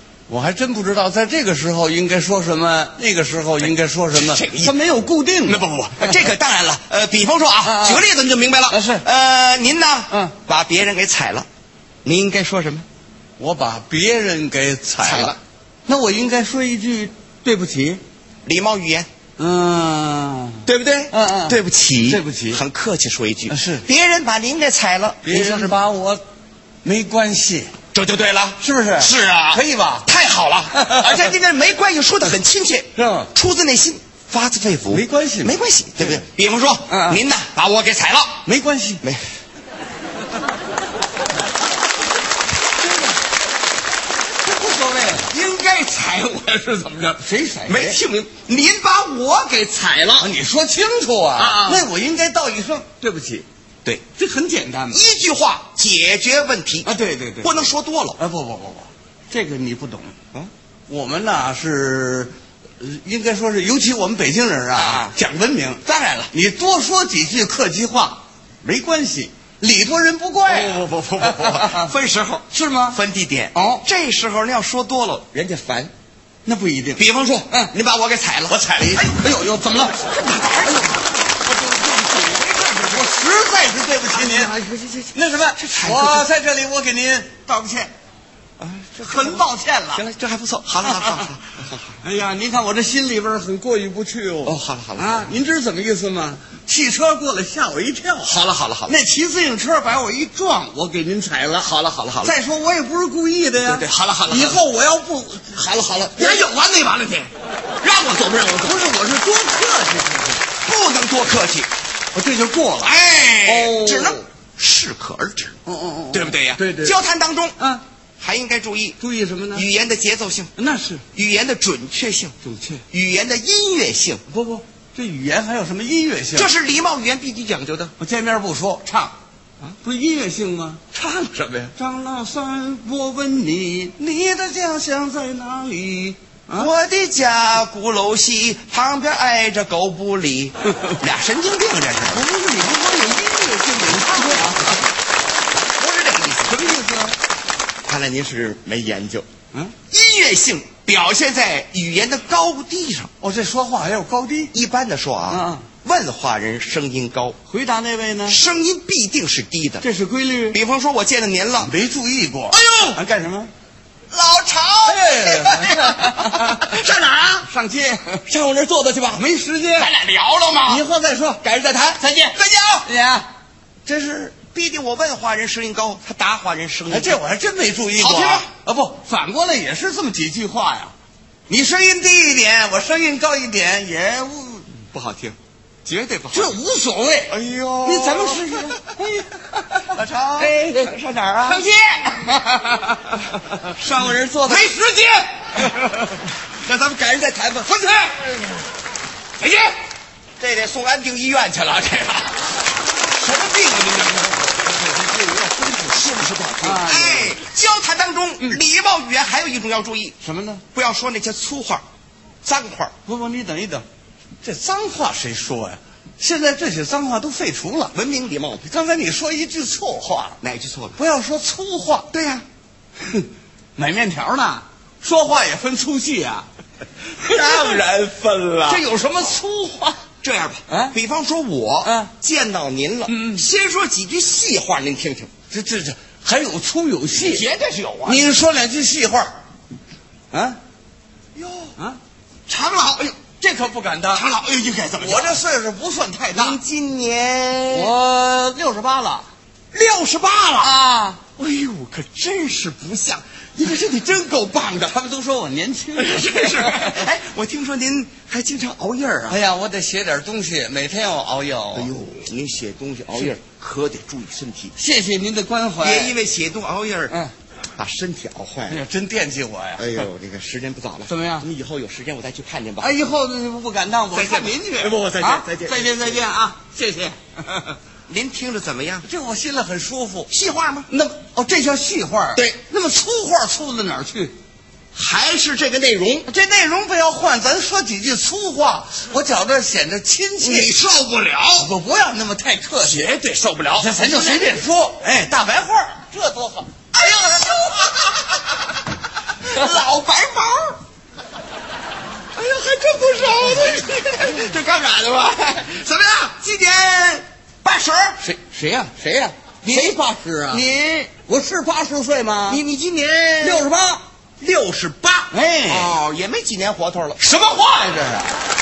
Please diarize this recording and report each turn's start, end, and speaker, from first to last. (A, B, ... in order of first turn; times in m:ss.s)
0:00.3-0:06.3 A
0:04.1-0:04.8 B
0:05.4-0:11.5 B
0:07.6-0:08.0 A
0:08.7-0:09.0 A
0:12.0-0:12.9 B
0:13.4-0:18.0 A
0:15.0-0:15.4 B
0:18.4-0:19.1 B
0:19.4-0:22.6 A
0:20.7-0:25.8 B
0:23.5-0:23.8 A
0:25.2-0:26.2 A
0:26.8-0:27.7 A
0:27.9-0:38.4 B
0:28.6-0:30.1 A
0:30.7-0:31.3 A
0:33.0-0:33.3 A
0:34.9-0:36.2 A
0:36.9-0:37.2 A
0:38.4-0:39.0 A
0:44.4-0:45.3 A
0:45.2-0:50.3 B
0:47.2-0:48.0 A
0:50.2-0:53.5 A
0:51.4-0:51.9 B
0:54.2-0:55.0 A
0:54.9-0:56.9 B
0:56.8-0:57.7 A
0:57.4-0:58.2 B
0:58.2-1:00.2 A
1:00.9-1:11.9 A
1:04.8-1:05.2 B
1:05.9-1:06.3 B
1:10.4-1:15.9 B
1:12.5-1:13.0 A
1:13.6-1:13.8 A
1:16.5-1:17.7 A
1:17.0-1:18.6 B
1:18.5-1:20.1 A
1:20.0-1:22.4 B
1:21.9-1:24.6 A
1:24.1-1:26.3 B
1:25.1-1:27.9 A
1:28.6-1:32.0 B
1:29.0-1:30.0 A
1:30.8-1:31.3 A
1:32.0-1:47.3 A
1:34.4-1:35.4 B
1:38.2-1:39.0 B
1:41.6-1:42.4 B
1:43.6-1:44.6 B
1:46.1-1:46.6 B
1:47.8-1:48.9 B
1:48.6-1:50.4 A
1:50.6-1:51.7 B
1:52.1-1:54.3 A
1:52.8-1:55.5 B
1:55.7-1:57.0 A
1:56.1-1:57.6 B
1:58.2-1:59.0 B
1:59.0-1:59.7 A
1:59.5-2:00.5 B
2:00.6-2:01.0 A
2:01.1-2:02.3 B
2:02.4-2:02.8 A
2:02.9-2:04.2 B
2:04.3-2:06.5 A
2:06.3-2:07.9 B
2:08.0-2:09.2 A
2:09.8-2:10.8 A
2:10.9-2:11.7 B
2:11.8-2:16.7 A
2:16.6-2:22.2 B
2:22.1-2:24.8 A
2:23.8-2:24.8 B
2:25.8-2:26.8 B
2:26.5-2:27.2 A
2:27.8-2:29.3 B
2:29.9-2:33.1 B
2:33.2-2:34.5 A
2:34.5-2:37.4 B
2:35.3-2:35.7 A
2:37.5-2:38.4 A
2:38.2-2:39.9 B
2:39.8-2:40.6 A
2:40.5-2:41.7 B
2:41.6-2:43.5 A
2:42.5-2:43.0 B
2:44.1-2:47.4 B
2:44.8-2:46.8 A
2:47.3-2:48.2 A
2:48.3-2:49.2 B
2:49.1-2:49.9 A
2:49.8-2:50.8 B
2:50.5-2:53.3 A
2:51.4-2:52.9 B
2:53.8-2:57.2 B
2:56.9-3:00.9 A
2:58.0-2:58.5 B
3:01.5-3:04.7 A
3:04.9-3:06.6 B
3:06.3-3:16.1 A
3:07.3-3:09.0 B
3:09.9-3:11.7 B
3:14.0-3:15.8 B
3:16.6-3:18.3 B
3:19.4-3:19.7 A
3:20.4-3:22.5 B
3:23.1-3:24.7 B
3:24.6-3:25.7 A
3:25.4-3:30.2 B
3:26.6-3:27.4 A
3:30.2-3:30.6 A
3:30.8-3:31.8 B
3:32.4-3:32.9 B
3:33.1-3:33.8 A
3:34.4-3:37.9 A
3:37.9-3:38.7 B
3:38.6-3:40.4 A
3:40.4-3:41.0 B
3:41.0-3:42.1 A
3:42.1-3:42.4 B
3:43.1-3:46.5 A
3:47.2-3:47.9 B
3:47.2-3:49.8 A
3:48.7-3:55.3 B
3:50.7-3:51.0 A
3:51.8-3:52.1 A
3:53.1-3:53.4 A
3:55.5-3:57.5 A
3:57.1-3:58.3 B
3:58.0-3:59.4 A
4:00.3-4:00.6 A
4:01.4-4:01.7 B
4:02.5-4:03.2 B
4:03.4-4:04.3 A
4:04.1-4:05.4 B
4:05.0-4:06.6 A
4:06.3-4:07.9 B
4:07.7-4:09.3 A
4:09.7-4:10.8 B
4:10.6-4:11.2 A
4:11.4-4:14.9 B
4:14.5-4:17.0 A
4:15.9-4:19.4 B
4:19.3-4:21.9 A
4:21.7-4:24.7 B
4:24.8-4:26.2 A
4:25.8-4:27.2 B
4:27.8-4:28.8 B
4:28.7-4:30.1 A
4:29.8-4:32.9 B
4:31.1-4:31.5 A
4:32.8-4:37.8 A
4:34.1-4:36.3 B
4:38.1-4:39.0 B
4:39.0-4:40.3 A
4:40.3-4:40.9 B
4:40.9-4:44.3 A
4:42.3-4:42.6 B
4:44.9-4:46.3 B
4:46.3-4:50.7 A
4:50.4-4:51.7 B
4:51.6-4:53.1 A
4:52.8-4:54.6 B
4:53.7-4:56.7 A
4:56.9-4:58.7 B
4:59.4-5:00.8 B
5:02.4-5:04.5 A
5:02.4-5:08.2 B
5:08.2-5:10.7 A
5:09.6-5:11.1 B
5:11.2-5:12.6 A
5:12.5-5:13.7 B
5:13.4-5:14.0 A
5:14.4-5:17.2 B
5:15.3-5:16.0 A
5:17.2-5:18.4 A